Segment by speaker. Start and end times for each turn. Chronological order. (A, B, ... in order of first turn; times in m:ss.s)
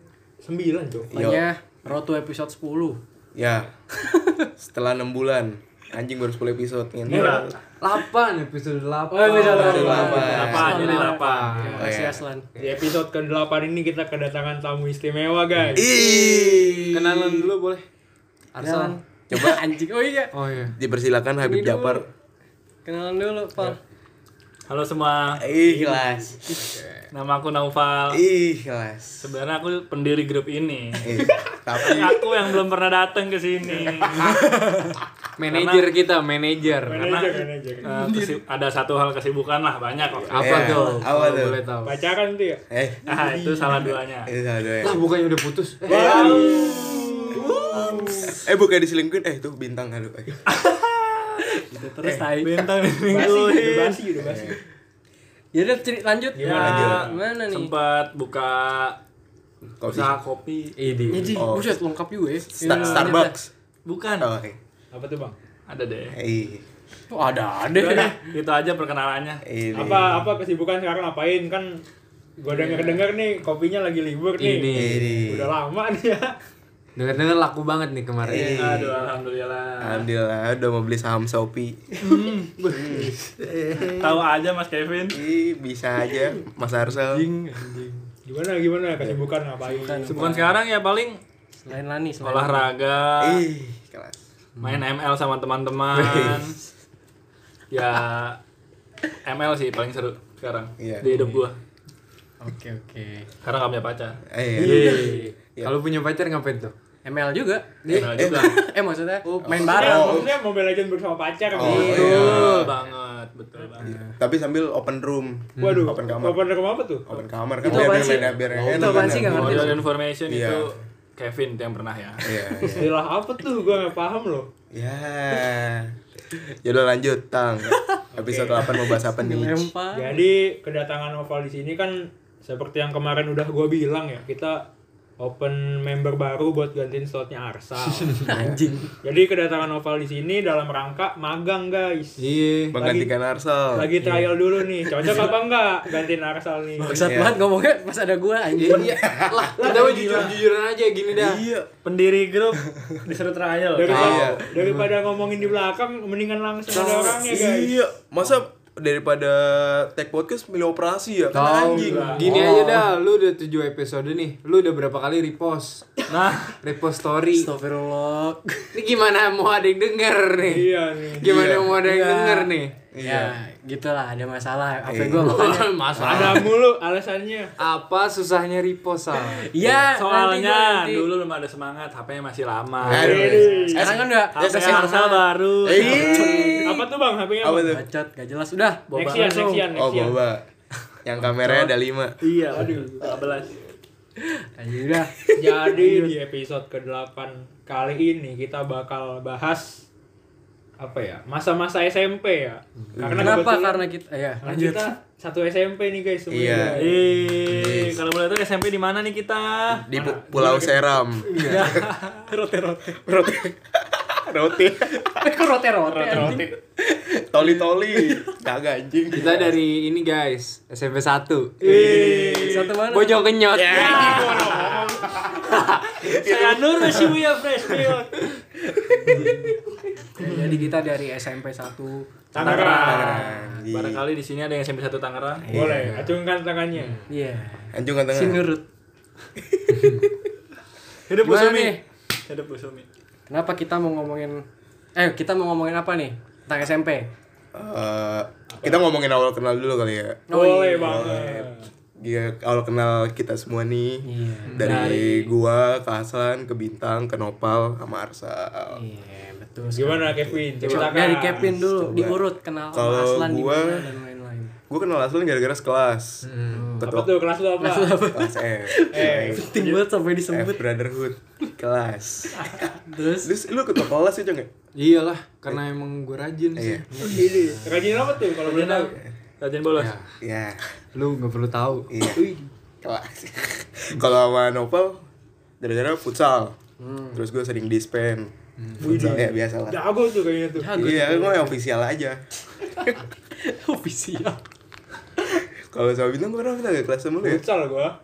0:00.4-0:01.1 A
0:01.1-0:01.5 B
0:01.1-0:03.0 C
0:03.4-0:03.7 B
0:04.0-0:04.5 C
0:04.6-0:07.6 B
0:07.1-0:07.4 D
0:07.8-0:11.9 E
0:09.1-0:12.5 C
0:09.5-0:10.8 B
0:10.0-0:11.7 D
0:11.5-0:11.9 A
0:11.8-0:12.2 B
0:12.6-0:16.1 A
0:15.7-0:17.5 B
0:16.1-0:16.7 C
0:16.9-0:17.8 E
0:18.6-0:19.0 E
0:18.6-0:20.3 C
0:19.3-0:19.7 B
0:20.3-0:20.8 E
0:20.8-0:22.1 B
0:21.4-0:22.1 C
0:22.8-0:23.8 C
0:24.7-0:25.4 D
0:25.4-0:26.4 B
0:25.7-0:26.3 A
0:26.5-0:26.9 E
0:27.1-0:28.2 D
0:28.1-0:29.3 B
0:29.2-0:31.0 D
0:31.0-0:32.2 B
0:31.8-0:34.4 D
0:33.9-0:34.3 B
0:35.4-0:37.0 E
0:35.5-0:35.9 D
0:36.8-0:37.9 A
0:36.9-0:40.8 D
0:37.8-0:38.4 C
0:40.2-0:41.6 B
0:40.3-0:42.0 E
0:41.8-0:43.9 A
0:42.7-0:43.0 B
0:43.1-0:44.3 D
0:44.2-0:45.0 B
0:44.8-0:47.0 E
0:45.9-0:48.1 D
0:45.9-0:48.4 A
0:46.1-0:46.7 B
0:47.4-0:50.4 B
0:47.4-0:48.1 C
0:50.5-0:51.6 D
0:51.5-0:52.7 C
0:52.4-0:54.0 D
0:53.1-0:54.6 A
0:54.2-0:54.6 B
0:55.5-0:57.7 C
0:56.4-0:57.0 A
0:56.4-0:59.0 D
0:56.6-0:57.1 B
0:59.8-1:00.2 B
0:59.9-1:01.3 D
1:00.8-1:01.3 E
1:01.1-1:03.3 C
1:01.3-1:01.7 B
1:02.5-1:03.5 B
1:03.8-1:04.3 D
1:04.2-1:04.6 B
1:04.9-1:05.4 A
1:05.7-1:06.2 D
1:06.1-1:06.6 B
1:07.1-1:08.3 C
1:07.8-1:09.4 D
1:09.4-1:10.3 B
1:09.7-1:11.8 A
1:12.4-1:16.3 A
1:12.5-1:12.9 C
1:14.4-1:15.1 E
1:14.7-1:15.5 B
1:17.0-1:18.6 E
1:18.2-1:19.0 B
1:18.4-1:20.1 D
1:19.8-1:23.2 B
1:22.0-1:22.5 D
1:22.6-1:23.6 E
1:23.8-1:25.2 D
1:25.1-1:27.3 B
1:27.0-1:28.1 C
1:28.3-1:30.4 A
1:29.6-1:30.5 C
1:30.1-1:31.2 D
1:31.6-1:32.7 C
1:32.2-1:33.4 D
1:33.2-1:34.2 B
1:34.6-1:34.8 C
1:34.6-1:36.6 D
1:36.0-1:36.5 B
1:37.7-1:38.4 D
1:39.2-1:41.6 D
1:40.8-1:41.1 B
1:41.0-1:41.4 E
1:42.4-1:43.3 C
1:43.4-1:44.2 D
1:44.3-1:45.7 B
1:44.6-1:46.7 E
1:44.6-1:45.2 C
1:47.0-1:47.8 C
1:47.8-1:48.1 E
1:47.9-1:48.6 B
1:47.9-1:48.6 D
1:48.4-1:50.4 C
1:49.4-1:50.3 B
1:49.6-1:52.4 A
1:51.6-1:52.7 B
1:51.6-1:52.7 C
1:51.6-1:53.9 D
1:53.8-1:54.2 C
1:53.8-1:56.4 B
1:55.6-1:56.0 E
1:55.6-1:57.2 A
1:57.1-2:00.7 B
1:57.6-1:59.8 C
1:58.7-1:59.3 E
1:59.0-2:02.4 D
2:02.2-2:02.9 B
2:02.7-2:04.5 A
2:04.7-2:09.7 B
2:08.1-2:08.7 A
2:09.0-2:10.2 C
2:09.9-2:14.7 A
2:15.2-2:18.5 A
2:18.1-2:18.9 C
2:19.0-2:23.1 A
2:22.2-2:22.8 E
2:22.7-2:23.9 B
2:23.7-2:27.1 A
2:24.0-2:24.3 E
2:25.0-2:25.3 C
2:26.8-2:29.1 C
2:27.0-2:27.4 B
2:28.6-2:31.4 E
2:28.7-2:29.5 B
2:29.6-2:30.4 D
2:31.1-2:31.7 B
2:31.8-2:34.3 D
2:33.8-2:37.8 A
2:33.9-2:34.4 B
2:34.1-2:35.0 E
2:36.7-2:42.6 B
2:41.3-2:45.9 E
2:41.7-2:42.5 D
2:42.2-2:42.9 C
2:46.1-2:46.6 D
2:46.6-2:47.5 E
2:47.3-2:48.8 C
2:48.7-2:52.8 E
2:50.5-2:51.3 A
2:51.2-2:51.8 B
2:51.7-2:56.4 C
2:52.9-2:53.4 B
2:54.8-2:55.4 B
2:55.2-2:56.5 E
2:56.0-2:57.6 A
2:57.6-2:59.5 E
2:59.1-3:01.1 C
3:00.0-3:03.5 D
3:02.8-3:04.7 B
3:02.9-3:04.0 A
3:02.9-3:06.9 C
3:04.3-3:06.5 D
3:05.6-3:06.6 B
3:06.6-3:07.7 A
3:07.4-3:07.8 B
3:07.6-3:09.7 C
3:08.9-3:09.3 D
3:08.9-3:10.2 A
3:09.7-3:10.4 B
3:11.0-3:12.8 B
3:11.4-3:13.6 D
3:12.5-3:12.9 A
3:14.2-3:16.2 C
3:15.4-3:19.9 A
3:20.8-3:23.9 A
3:23.0-3:23.5 B
3:23.1-3:24.9 C
3:24.4-3:27.2 A
3:26.3-3:28.0 B
3:26.6-3:29.9 D
3:29.8-3:31.7 B
3:29.9-3:31.0 A
3:31.2-3:31.7 E
3:31.5-3:33.1 C
3:31.6-3:32.1 D
3:33.0-3:35.3 B
3:35.1-3:38.3 C
3:36.0-3:36.4 D
3:36.0-3:36.5 B
3:37.3-3:39.6 B
3:39.1-3:44.5 E
3:41.7-3:42.7 B
3:41.8-3:42.6 A
3:41.8-3:43.2 C
3:43.5-3:47.2 B
3:43.7-3:45.2 A
3:45.5-3:45.9 E
3:46.0-3:48.1 D
3:48.9-3:49.4 C
3:49.1-3:49.4 E
3:50.2-3:53.6 C
3:50.3-3:50.6 E
3:52.3-3:53.3 A
3:52.4-3:55.4 D
3:52.8-3:54.0 B
3:55.5-3:57.1 A
3:55.5-3:55.9 B
3:55.5-3:56.2 E
3:57.1-3:58.6 C
3:57.7-3:58.5 B
3:59.4-4:00.2 B
3:59.7-4:00.0 E
4:01.1-4:02.9 D
4:01.2-4:01.8 C
4:03.3-4:07.1 C
4:07.5-4:10.2 B
4:08.5-4:08.8 A
4:10.3-4:11.7 A
4:10.3-4:11.2 C
4:10.8-4:18.8 B
4:14.0-4:14.9 C
4:14.5-4:14.9 E
4:14.6-4:15.3 D
4:18.7-4:24.5 C
4:19.7-4:21.5 A
4:21.4-4:23.9 B
4:24.7-4:26.3 B
4:26.2-4:26.8 E
4:26.5-4:26.9 C
4:26.8-4:27.2 B
4:26.8-4:28.0 A
4:27.6-4:30.7 C
4:28.1-4:29.6 B
4:28.9-4:29.7 A
4:30.3-4:34.5 B
4:32.8-4:33.3 C
4:34.8-4:36.9 E
4:36.6-4:37.2 B
4:36.9-4:38.0 C
4:37.0-4:39.0 A
4:38.4-4:39.9 D
4:39.8-4:40.1 E
4:40.2-4:40.6 B
4:40.9-4:41.9 E
4:41.9-4:42.2 B
4:42.1-4:42.5 A
4:42.8-4:45.0 B
4:45.6-4:46.6 B
4:46.8-4:47.2 C
4:47.1-4:49.8 B
4:48.6-4:48.9 E
4:48.8-4:50.9 A
4:50.6-4:51.6 C
4:50.7-4:52.2 B
4:53.4-4:54.4 C
4:55.5-4:57.4 B
4:57.2-4:58.0 A